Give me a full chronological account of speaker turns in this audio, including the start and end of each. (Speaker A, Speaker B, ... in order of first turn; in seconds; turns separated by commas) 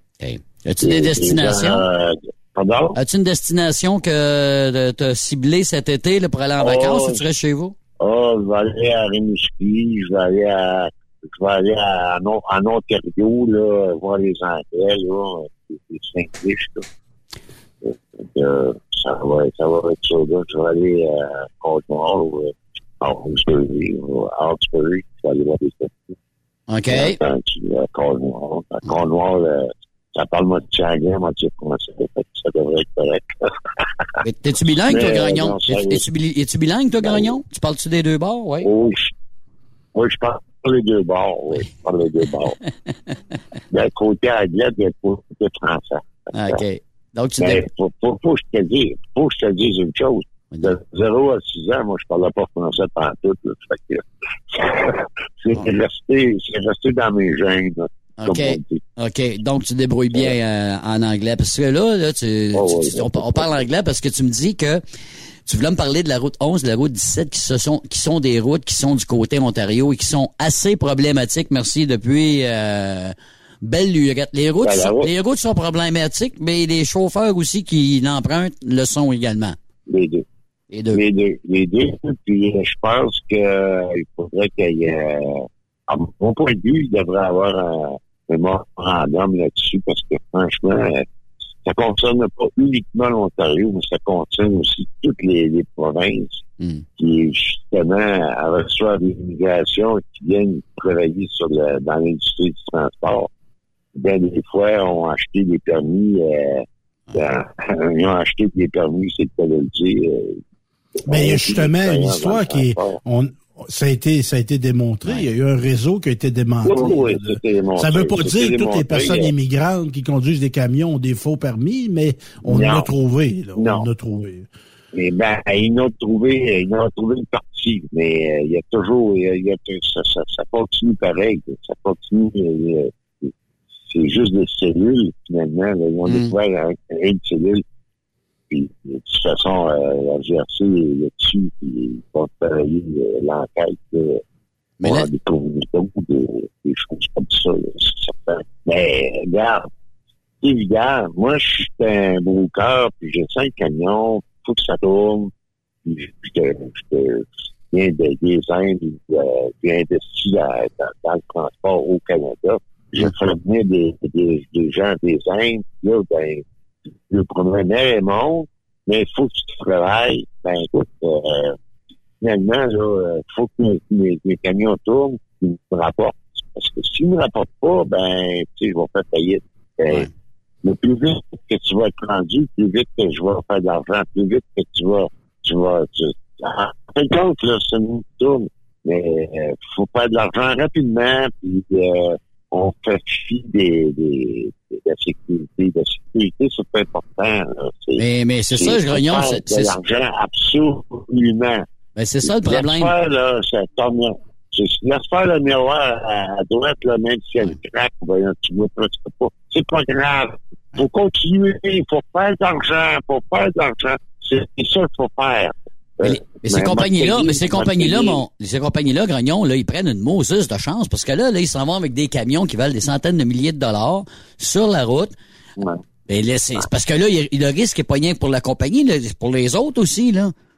Speaker A: 0.2-1.9, Speaker B: 0.8-3.0, Speaker A: 3.0-7.8, Speaker B: 6.6-7.3, Speaker B: 8.0-16.9, Speaker B: 17.8-26.2, Speaker A: 26.7-27.2, Speaker B: 26.9-33.9, Speaker A: 34.2-38.7, Speaker B: 34.9-36.1, Speaker B: 37.0-37.3, Speaker B: 38.6-39.1, Speaker B: 39.9-42.6, Speaker B: 43.7-46.6, Speaker A: 46.3-47.7, Speaker B: 47.4-58.8, Speaker A: 50.5-50.8, Speaker A: 58.2-64.8, Speaker B: 62.5-63.7, Speaker A: 65.5-79.6, Speaker B: 74.6-75.1, Speaker B: 79.9-80.3, Speaker A: 80.7-81.0, Speaker B: 80.9-91.1, Speaker B: 91.7-96.5, Speaker A: 96.6-96.9, Speaker B: 97.0-103.3, Speaker B: 104.0-110.4, Speaker B: 111.0-113.0, Speaker C: 111.1-124.5, Speaker B: 116.6-119.3, Speaker B: 122.4-122.9, Speaker B: 123.6-123.9, Speaker B: 124.9-133.3, Speaker B: 133.9-137.6, Speaker A: 136.1-136.3, Speaker B: 138.5-144.2, Speaker A: 144.8-145.1, Speaker B: 144.8-149.7, Speaker B: 150.4-155.3, Speaker B: 155.8-166.4, Speaker B: 167.1-171.6, Speaker B: 172.2-180.1, Speaker B: 180.6-201.7, Speaker A: 198.0-199.8, Speaker A: 202.0-203.0, Speaker B: 202.2-218.2, Speaker A: 216.0-225.2, Speaker A: 226.1-230.3